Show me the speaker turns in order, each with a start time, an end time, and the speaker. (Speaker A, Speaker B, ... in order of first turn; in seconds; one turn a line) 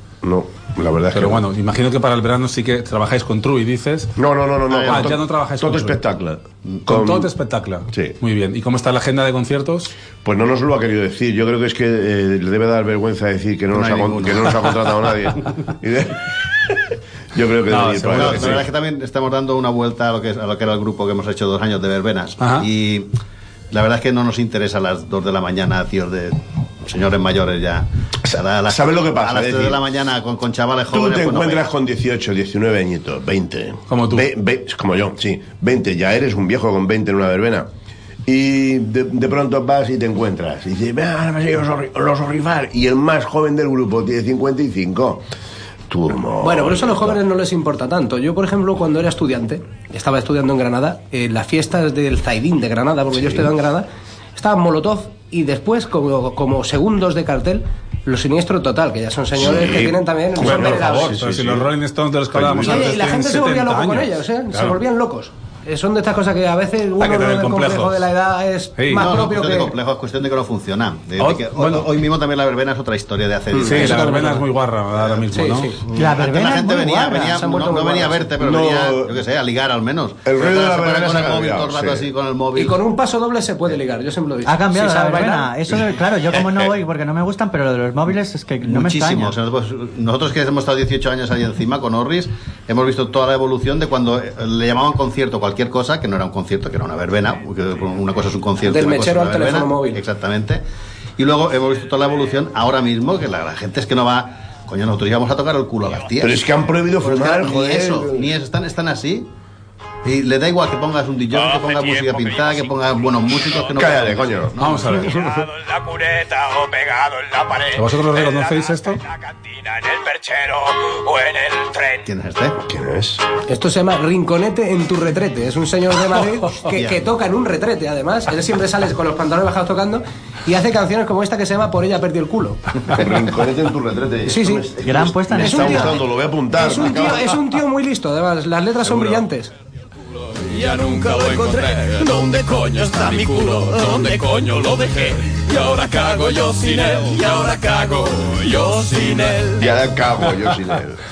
Speaker A: 0.2-1.4
Speaker B: 1.1-4.1
Speaker A: 4.2-7.3
Speaker C: 4.7-5.1
Speaker B: 4.9-6.0
Speaker B: 6.9-9.9
Speaker A: 10.2-16.8
Speaker C: 13.7-14.7
Speaker A: 17.3-18.6
Speaker B: 17.7-18.6
Speaker C: 18.1-23.1
Speaker B: 22.4-22.7
Speaker C: 23.7-31.7
Speaker A: 28.3-29.8
Speaker A: 30.9-37.7
Speaker B: 33.9-34.3
Speaker A: 38.3-45.2
Speaker A: 45.9-47.2
Speaker D: 46.4-61.1
Speaker A: 59.4-61.7
Speaker B: 60.4-64.8
Speaker A: 62.3-62.9
Speaker D: 62.6-69.7
Speaker B: 67.0-68.1
Speaker B: 68.8-69.1
Speaker C: 68.9-74.1
Speaker B: 71.2-71.9
Speaker D: 73.5-74.5
Speaker B: 73.6-75.7
Speaker D: 75.3-75.9
Speaker E: 75.9-77.4
Speaker C: 76.0-82.8
Speaker D: 77.2-78.3
Speaker A: 78.4-79.2
Speaker A: 80.3-82.1
Speaker D: 82.5-85.5
Speaker E: 84.4-89.3
Speaker C: 88.6-100.6
Speaker D: 98.6-100.0
Speaker C: 101.2-106.5
Speaker A: 106.2-108.3
Speaker C: 107.0-109.3
Speaker C: 110.0-115.3
Speaker F: 111.4-112.6
Speaker A: 113.8-114.6
Speaker B: 114.6-115.3
Speaker F: 115.5-117.8
Speaker B: 117.7-119.0
Speaker F: 119.4-122.0
Speaker C: 122.0-122.6
Speaker A: 122.6-123.2
Speaker D: 123.5-132.6
Speaker C: 126.7-127.0
Speaker A: 132.9-137.3
Speaker D: 134.3-134.7
Speaker E: 134.8-136.0
Speaker D: 135.3-139.5
Speaker F: 140.3-149.8
Speaker A: 149.6-151.0